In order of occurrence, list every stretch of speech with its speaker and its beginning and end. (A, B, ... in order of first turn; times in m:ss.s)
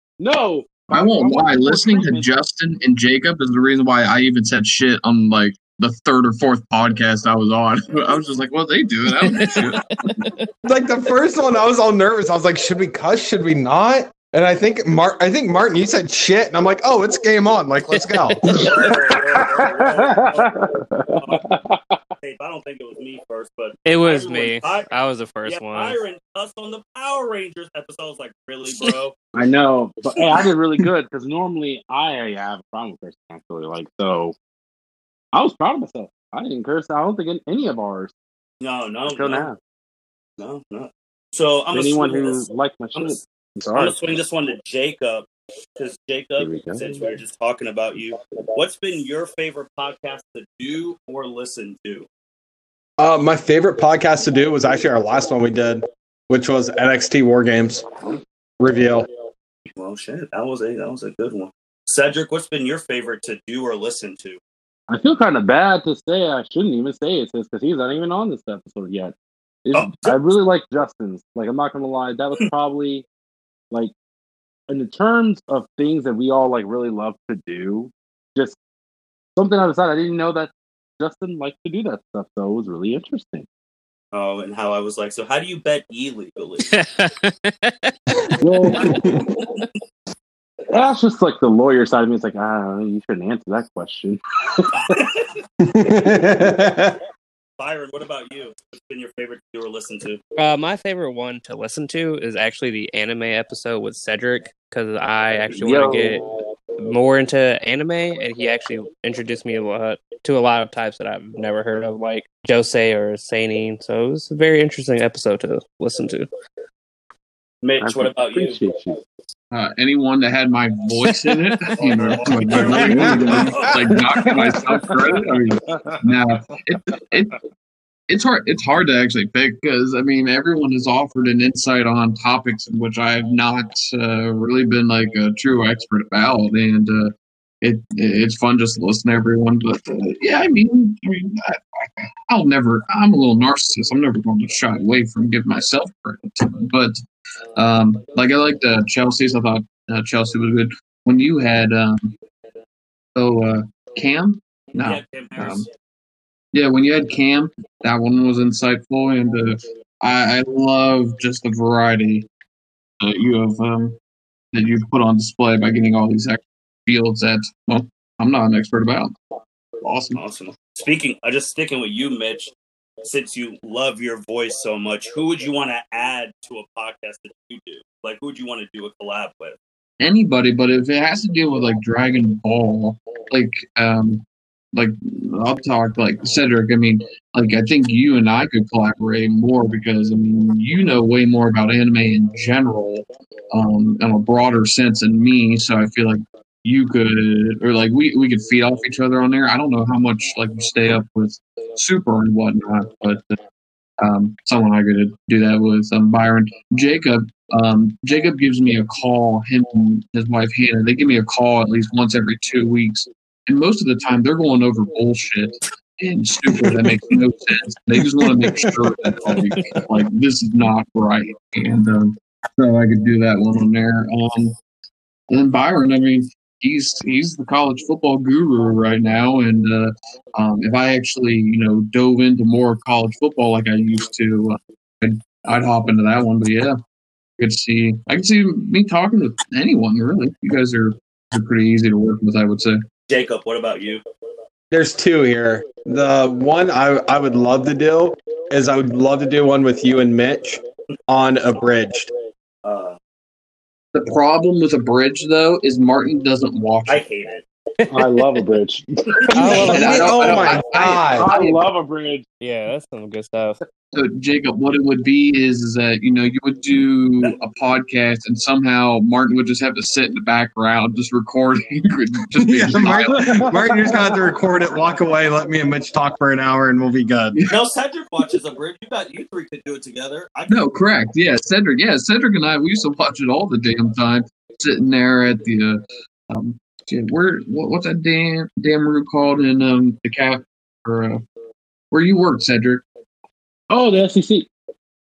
0:00.2-0:02.3 A
0:00.9-0:10.3 B
0:09.2-0:10.5 C
0:10.6-0:18.5 D
0:17.9-0:18.7 C
0:18.5-0:22.0 A
0:18.6-0:20.6 E
0:21.1-0:21.4 E
0:22.2-0:24.9 E
0:23.8-0:26.0 C
0:25.4-0:29.1 E
0:29.3-0:34.4 A
0:35.3-0:38.1 A
0:38.6-0:39.5 E
0:39.0-0:39.6 A
0:40.4-0:52.1 E
0:41.7-0:44.0 A
0:46.4-0:47.0 A
0:53.0-0:57.8 D
0:58.6-0:59.1 D
0:59.7-1:04.4 E
1:04.9-1:13.0 A
1:09.7-1:10.2 E
1:14.7-1:18.6 A
1:19.4-1:23.5 A
1:24.1-1:26.7 E
1:26.7-1:27.9 C
1:28.4-1:29.4 A
1:30.7-1:34.9 A
1:35.6-1:37.0 D
1:37.6-1:40.2 E
1:40.4-1:46.2 C
1:45.5-1:46.2 A
1:46.8-1:56.3 C
1:57.6-1:58.6 E
1:57.8-1:59.0 A
1:59.5-2:07.4 B
2:01.7-2:03.8 E
2:02.4-2:06.0 A
2:08.1-2:27.0 B
2:27.5-2:32.1 B
2:33.1-2:35.7 B
2:34.8-2:35.7 E
2:36.5-2:42.3 B
2:43.0-2:44.0 B
2:44.5-2:49.1 B
2:49.8-2:50.2 B
2:50.1-2:59.6 E
3:00.0-3:23.4 B
3:24.0-3:44.6 B
3:45.3-3:56.8 B
3:57.4-4:02.8 B
4:03.1-4:04.0 E
4:04.7-4:12.1 D
4:12.6-4:13.0 E
4:13.9-4:17.0 B
4:16.8-4:17.4 E
4:17.8-4:18.3 C
4:17.9-4:20.4 A
4:19.2-4:19.7 E
4:19.3-4:21.7 B
4:19.3-4:21.3 D
4:21.1-4:22.2 A
4:22.4-4:23.6 C
4:23.9-4:33.6 B
4:32.4-4:37.4 D
4:32.8-4:34.1 A
4:37.3-4:37.6 B
4:37.5-4:40.7 E
4:40.5-4:51.2 B
4:51.9-4:52.8 B
4:53.7-4:54.5 A